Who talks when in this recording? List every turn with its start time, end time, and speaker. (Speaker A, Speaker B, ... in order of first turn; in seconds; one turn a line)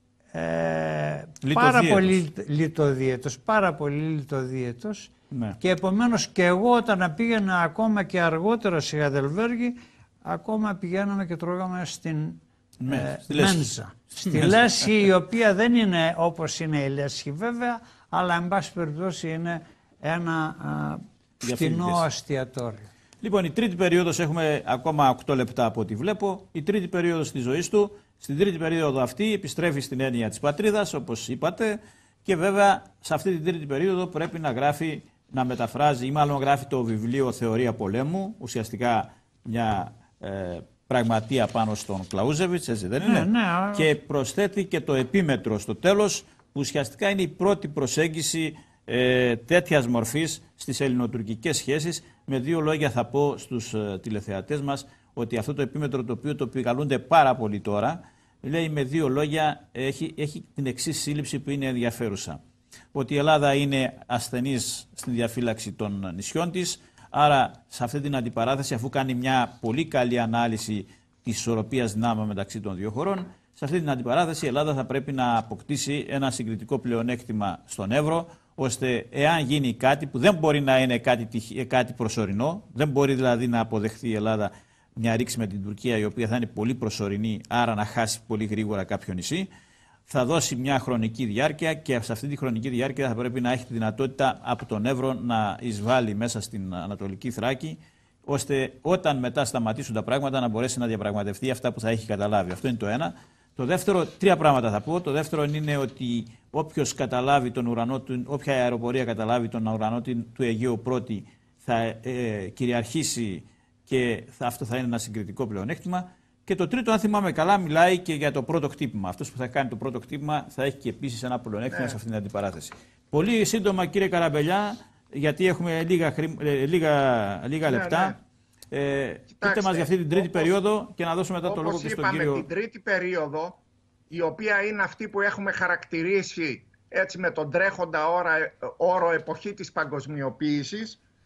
Speaker A: 0.3-22.9
Speaker B: 1.4-2.2
Speaker B: 5.3-5.6
Speaker B: 12.8-13.7
Speaker B: 14.2-15.0
Speaker B: 21.4-22.1
Speaker B: 23.2-62.4
Speaker A: 43.0-43.9
Speaker B: 62.9-89.5
Speaker B: 90.1-128.2
Speaker C: 121.7-122.0
Speaker C: 127.7-128.2
Speaker B: 128.7-132.5
Speaker C: 129.3-130.5
Speaker C: 131.4-141.0